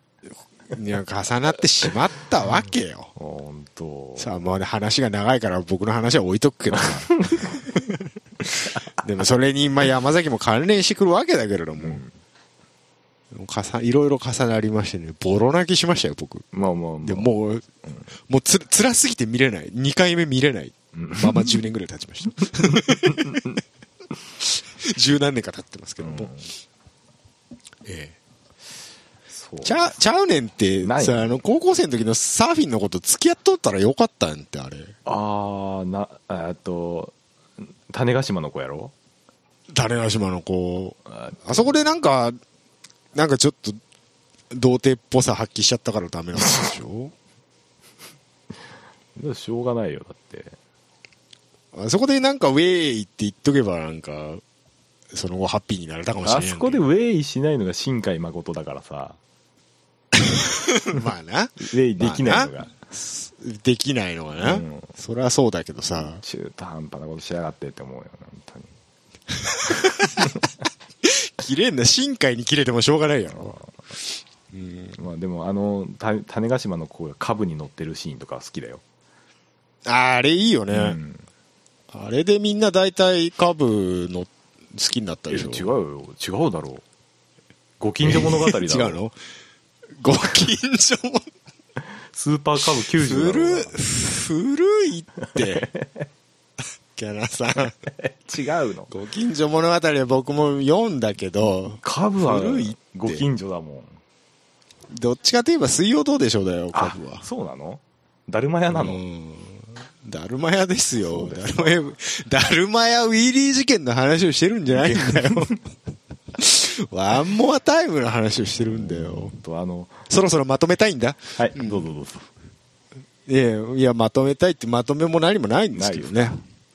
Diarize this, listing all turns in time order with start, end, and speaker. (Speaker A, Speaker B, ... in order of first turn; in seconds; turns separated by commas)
Speaker A: 0.7-3.1, Speaker B: 3.2-4.3, Speaker A: 4.2-7.8, Speaker B: 6.7-7.8, Speaker A: 9.0-12.0, Speaker B: 11.8-12.2, Speaker A: 13.3-16.5, Speaker B: 16.5-17.3, Speaker A: 17.0-17.7, Speaker A: 18.3-23.4, Speaker B: 20.9-21.6, Speaker B: 22.4-23.6, Speaker A: 24.4-26.3, Speaker B: 26.0-26.5, Speaker A: 27.9-28.2, Speaker B: 29.3-29.9, Speaker A: 29.6-35.0, Speaker B: 30.8-31.3, Speaker B: 35.0-38.9, Speaker A: 39.7-42.4, Speaker B: 41.1-41.8, Speaker A: 43.1-43.8, Speaker A: 44.5-47.1, Speaker B: 49.2-50.6, Speaker A: 51.7-54.4, Speaker A: 55.1-56.8, Speaker B: 56.2-59.2, Speaker A: 60.2-66.2, Speaker B: 61.6-62.7, Speaker B: 64.4-64.9, Speaker B: 66.2-68.7, Speaker A: 69.4-70.3, Speaker B: 69.7-70.5, Speaker A: 71.0-73.6, Speaker B: 73.3-73.8, Speaker A: 74.5-75.0, Speaker B: 75.0-78.8, Speaker A: 79.9-81.0, Speaker B: 80.7-81.3, Speaker A: 81.9-85.7, Speaker B: 85.3-86.8, Speaker B: 87.8-89.0, Speaker A: 88.0-89.2, Speaker A: 90.0-91.3, Speaker B: 92.1-93.8, Speaker A: 92.9-95.7, Speaker B: 95.3-96.1, Speaker A: 97.0-97.7, Speaker B: 97.6-98.9, Speaker A: 98.9-103.3, Speaker B: 101.8-104.0, Speaker A: 104.9-107.2, Speaker B: 106.7-109.0, Speaker A: 108.7-115.6, Speaker B: 111.0-111.8, Speaker B: 114.7-115.6, Speaker A: 116.3-119.4, Speaker B: 118.6-120.0, Speaker A: 120.1-121.9, Speaker B: 121.4-122.3, Speaker A: 123.3-126.4, Speaker B: 125.7-126.4